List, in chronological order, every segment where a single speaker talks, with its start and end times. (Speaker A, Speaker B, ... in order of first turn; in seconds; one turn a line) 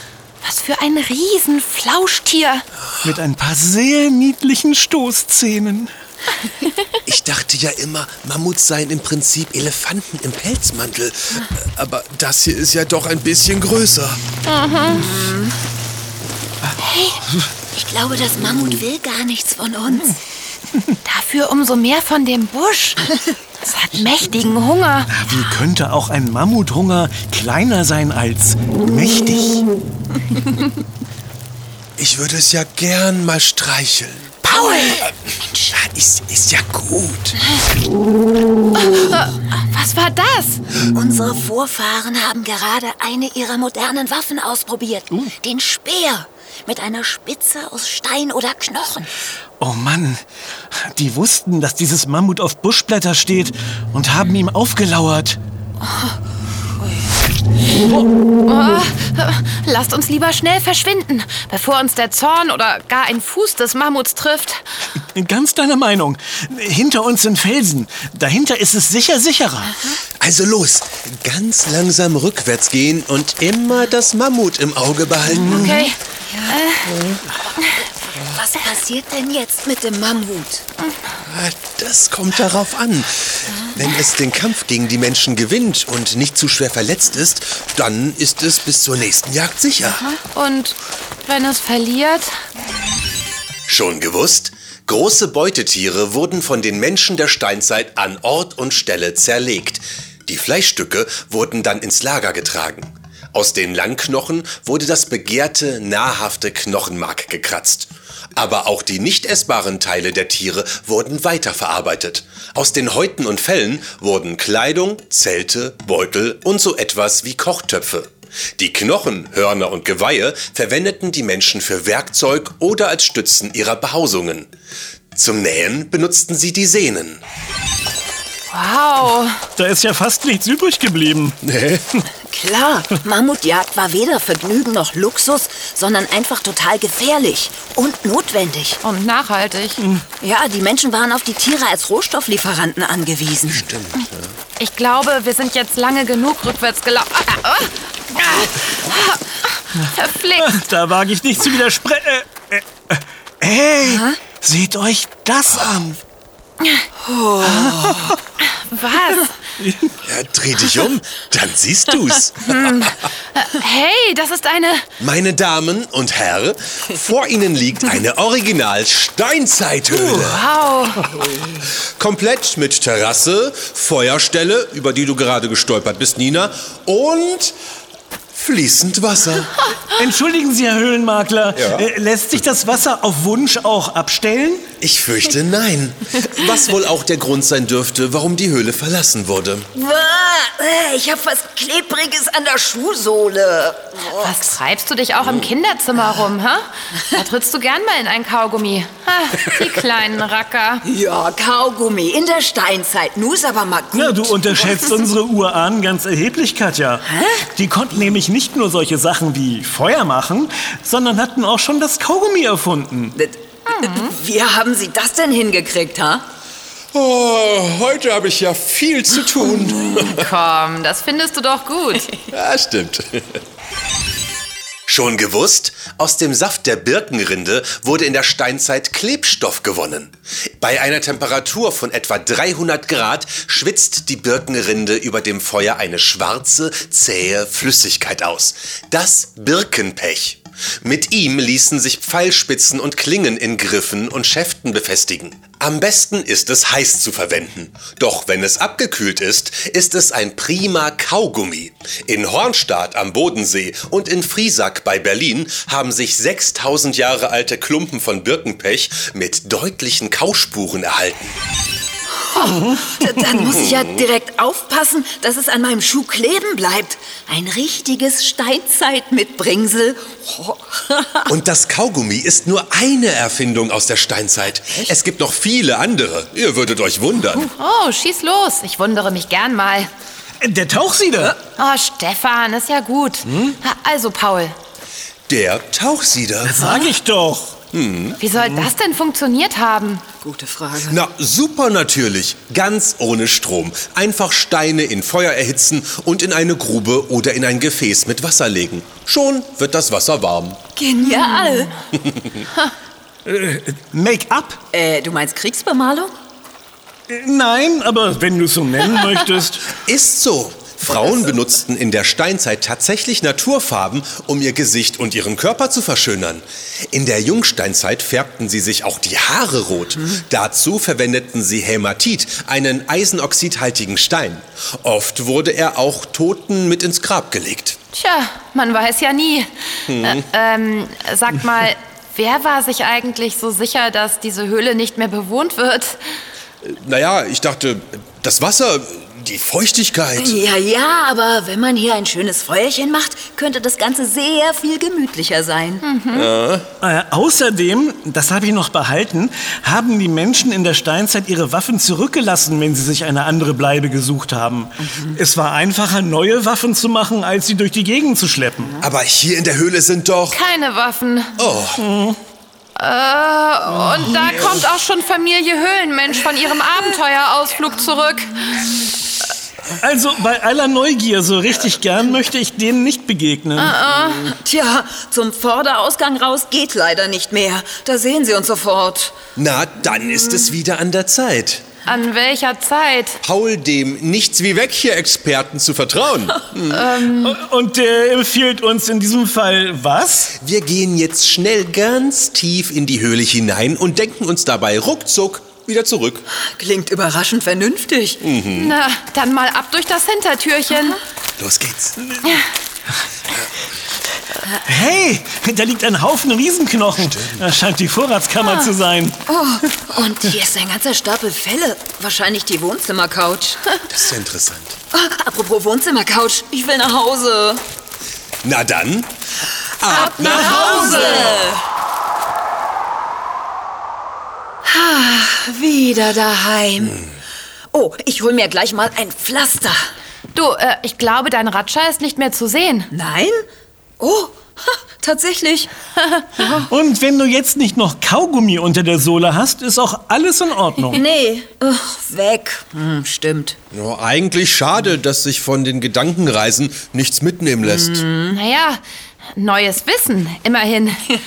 Speaker A: 0.4-2.7
Speaker B: 2.9-3.2
Speaker C: 3.0-5.9
Speaker B: 7.0-14.2
Speaker A: 14.4-15.1
Speaker D: 14.9-15.6
Speaker A: 16.8-17.2
Speaker D: 17.7-20.2
Speaker A: 21.0-25.2
Speaker C: 25.1-29.7
Speaker B: 32.0-34.4
Speaker D: 34.5-35.7
Speaker A: 34.5-35.0
Speaker B: 35.7-37.4
Speaker A: 38.8-40.6
Speaker D: 40.8-49.1
Speaker C: 49.6-50.2
Speaker C: 50.7-55.4
Speaker A: 58.4-64.6
Speaker C: 65.1-69.8
Speaker B: 70.2-75.8
Speaker C: 75.4-75.8
Speaker D: 75.5-75.8
Speaker A: 75.5-76.0
Speaker D: 76.3-76.6
Speaker A: 76.5-76.9
Speaker B: 76.8-77.2
Speaker D: 77.5-80.7
Speaker B: 81.2-90.1
Speaker A: 90.3-92.3
Speaker B: 93.7-124.5
Speaker B: 125.1-127.2
Speaker A: 128.5-129.4
Speaker C: 129.6-131.4
Speaker B: 131.4-131.9
Speaker D: 132.3-138.8
Speaker A: 138.8-139.8
Speaker D: 140.2-143.7
Speaker B: 143.5-144.3
Speaker A: 144.6-150.6
Speaker C: 150.4-156.0
Speaker D: 153.8-154.2
Speaker D: 157.0-158.2
Speaker C: 157.5-158.2
Speaker A: 158.5-159.3
Speaker C: 159.6-159.9
Speaker B: 160.0-162.9
Speaker A: 162.5-164.9
Speaker B: 165.0-170.5
Speaker C: 169.9-170.2
Speaker A: 170.2-171.2
Speaker B: 171.6-177.6
Speaker B: 178.3-179.6
Speaker C: 179.9-184.7
Speaker B: 181.6-181.9
Speaker B: 184.8-189.7
Speaker D: 189.8-194.5
Speaker A: 194.2-200.8
Speaker B: 195.2-195.5
Speaker D: 200.8-204.9
Speaker C: 203.9-213.2
Speaker D: 207.1-207.5
Speaker D: 213.1-216.3
Speaker A: 213.7-214.1
Speaker B: 216.9-220.3
Speaker A: 220.0-222.1
Speaker B: 222.3-223.4
Speaker B: 224.9-261.3
Speaker D: 262.1-271.3
Speaker B: 263.5-263.9
Speaker B: 271.3-277.5
Speaker A: 277.3-279.9
Speaker C: 280.4-281.4
Speaker A: 281.6-284.5
Speaker B: 285.3-286.7
Speaker C: 286.4-287.6
Speaker B: 287.7-288.2
Speaker A: 288.2-290.1
Speaker D: 290.2-291.0
Speaker B: 290.9-300.6
Speaker D: 300.8-301.7
Speaker A: 301.4-301.7
Speaker B: 302.0-302.4
Speaker C: 303.3-304.6
Speaker D: 304.7-306.1
Speaker C: 307.1-309.7
Speaker B: 309.8-327.8
Speaker A: 327.9-336.0
Speaker B: 329.9-330.2
Speaker B: 336.6-340.4
Speaker D: 340.2-345.8
Speaker A: 345.8-346.3
Speaker B: 346.1-346.7
Speaker C: 346.8-358.8
Speaker D: 354.9-355.2
Speaker B: 358.8-360.4
Speaker A: 360.3-361.4
Speaker B: 361.4-361.9
Speaker C: 361.8-362.2
Speaker A: 362.8-368.7
Speaker C: 369.8-373.8
Speaker A: 373.6-374.3
Speaker D: 374.1-379.2
Speaker B: 379.4-381.6
Speaker A: 381.9-383.2
Speaker B: 383.2-387.0
Speaker A: 386.7-387.4
Speaker C: 387.2-390.3
Speaker B: 390.4-396.2
Speaker D: 396.4-398.2
Speaker B: 398.2-398.8
Speaker A: 398.5-401.0
Speaker B: 401.4-402.0
Speaker C: 404.6-409.2
Speaker B: 406.9-407.5
Speaker A: 408.4-408.7
Speaker D: 409.3-413.7
Speaker B: 413.9-414.8
Speaker D: 414.9-417.6
Speaker B: 418.4-419.1
Speaker B: 419.8-421.5
Speaker D: 419.9-421.6
Speaker A: 419.9-421.3
Speaker C: 420.2-421.2
Speaker D: 424.6-427.1
Speaker D: 427.7-429.8
Speaker A: 430.3-432.9
Speaker D: 432.9-433.4
Speaker D: 434.0-435.7
Speaker D: 436.4-436.7
Speaker C: 436.6-441.0
Speaker D: 440.9-443.6
Speaker B: 443.7-448.0
Speaker D: 447.6-448.4
Speaker A: 448.3-448.8
Speaker A: 449.4-451.0